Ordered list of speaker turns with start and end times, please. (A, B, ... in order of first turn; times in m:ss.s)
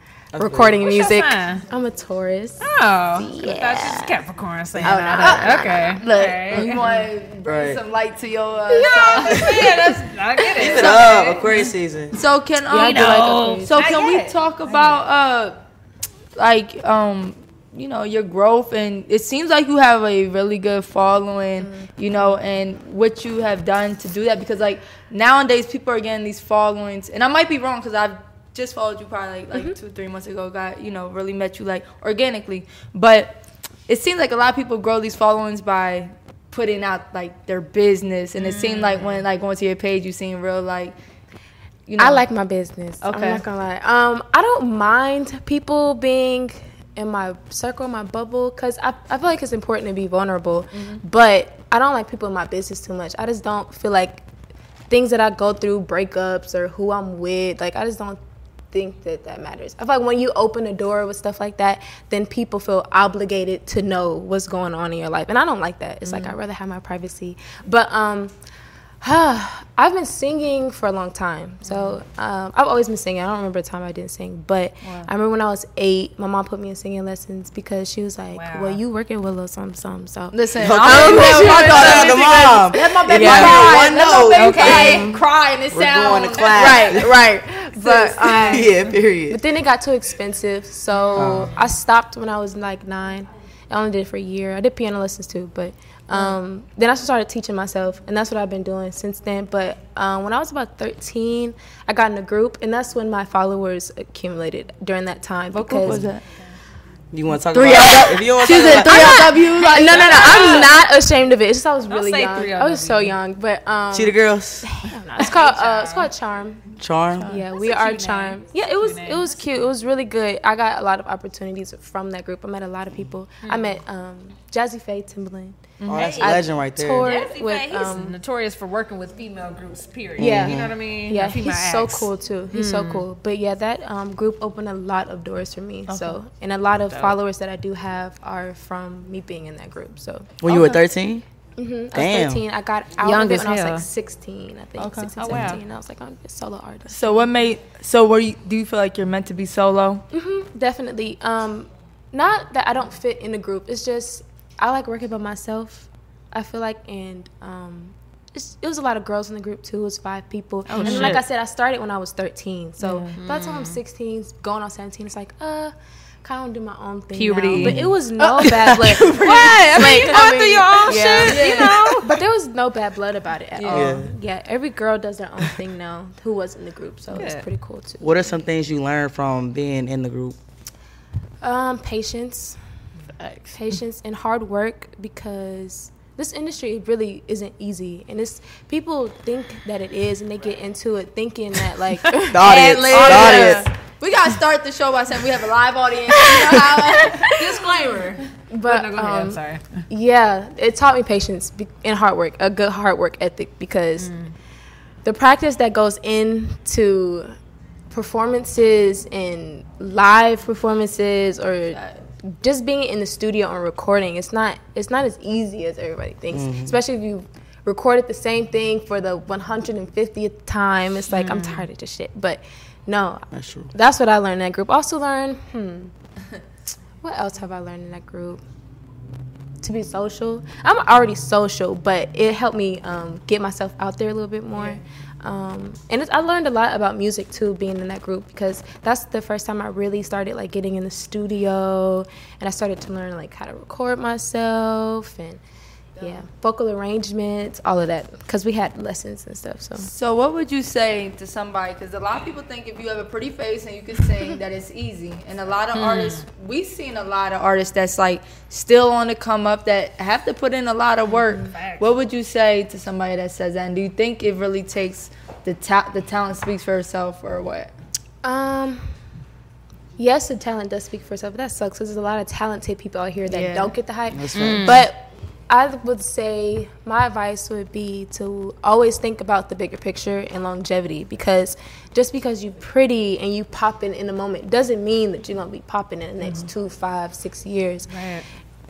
0:00.3-0:00.9 A
0:00.3-0:04.2 B
0:00.8-0:01.6 C
0:02.6-0:06.9 C
0:04.8-0:05.2 A
0:04.8-0:06.0 B
0:05.2-0:09.5 D
0:06.5-0:07.0 B
0:07.4-0:07.8 A
0:08.7-0:11.7 C
0:09.4-0:09.6 A
0:10.5-0:12.2 A
0:10.7-0:11.0 D
0:12.1-0:15.6 D
0:12.7-0:13.8 B
0:12.7-0:14.9 C
0:16.4-0:40.9 D
0:21.6-0:22.4 B
0:38.4-0:39.2 C
0:41.9-0:42.2 D
0:42.0-0:54.2 B
0:43.0-0:43.4 D
0:54.9-0:58.2 B
0:58.7-1:08.3 B
1:09.0-1:22.2 B
1:14.8-1:15.1 D
1:18.3-1:18.8 C
1:20.3-1:27.0 D
1:20.6-1:27.2 A
1:22.8-1:25.1 B
1:24.3-1:25.0 C
1:26.6-1:28.7 B
1:27.8-1:28.5 D
1:28.3-1:29.4 A
1:29.3-1:46.0 B
1:30.9-1:31.6 C
1:31.2-1:31.5 A
1:45.5-1:46.2 D
1:47.1-1:49.3 A
1:47.5-1:50.6 D
1:48.6-1:56.6 B
1:49.7-1:50.8 C
1:51.9-1:53.2 C
1:53.9-1:54.7 A
1:55.2-1:56.1 C
1:56.8-1:57.3 A
1:57.2-2:08.2 B
1:57.5-1:59.4 C
2:03.4-2:03.8 C
2:05.8-2:06.1 D
2:05.8-2:06.4 C
2:05.9-2:07.1 A
2:07.0-2:13.0 C
2:10.2-2:10.8 A
2:10.2-2:20.4 B
2:15.9-2:16.2 D
2:16.9-2:17.2 C
2:20.4-2:21.2 A
2:20.5-2:20.8 D
2:21.6-2:27.3 B
2:21.9-2:22.4 A
2:23.0-2:23.8 C
2:24.8-2:25.1 D
2:25.2-2:25.6 C
2:26.9-2:30.0 D
2:30.1-2:58.2 B
2:40.7-2:41.2 C
2:40.8-2:41.2 D
2:42.8-2:43.2 D
2:43.2-2:43.8 C
2:47.1-2:47.8 C
2:47.6-2:47.9 A
2:48.4-2:49.2 A
2:49.0-2:52.2 C
2:51.2-2:51.8 D
2:53.5-2:54.0 D
2:53.7-2:54.1 A
2:57.1-2:57.4 C
2:58.0-3:00.4 A
3:01.4-3:02.6 B
3:03.2-3:03.6 D
3:03.5-3:13.7 B
3:12.3-3:13.7 A
3:12.4-3:13.3 C
3:12.5-3:17.4 D
3:16.2-3:19.8 C
3:18.5-3:24.1 B
3:24.0-3:24.3 C
3:25.0-3:27.3 B
3:27.9-3:45.9 B
3:36.3-3:36.8 A
3:41.1-3:41.7 C
3:43.3-3:43.7 A
3:47.0-3:48.4 B
3:49.6-4:05.4 B
4:06.0-4:09.9 B
4:09.8-4:27.7 D
4:15.7-4:16.2 C
4:21.3-4:21.9 C
4:28.2-4:28.8 B
4:30.0-4:47.9 B
4:33.3-4:33.7 D
4:34.1-4:34.8 A
4:34.4-4:34.8 C
4:47.9-4:48.2 C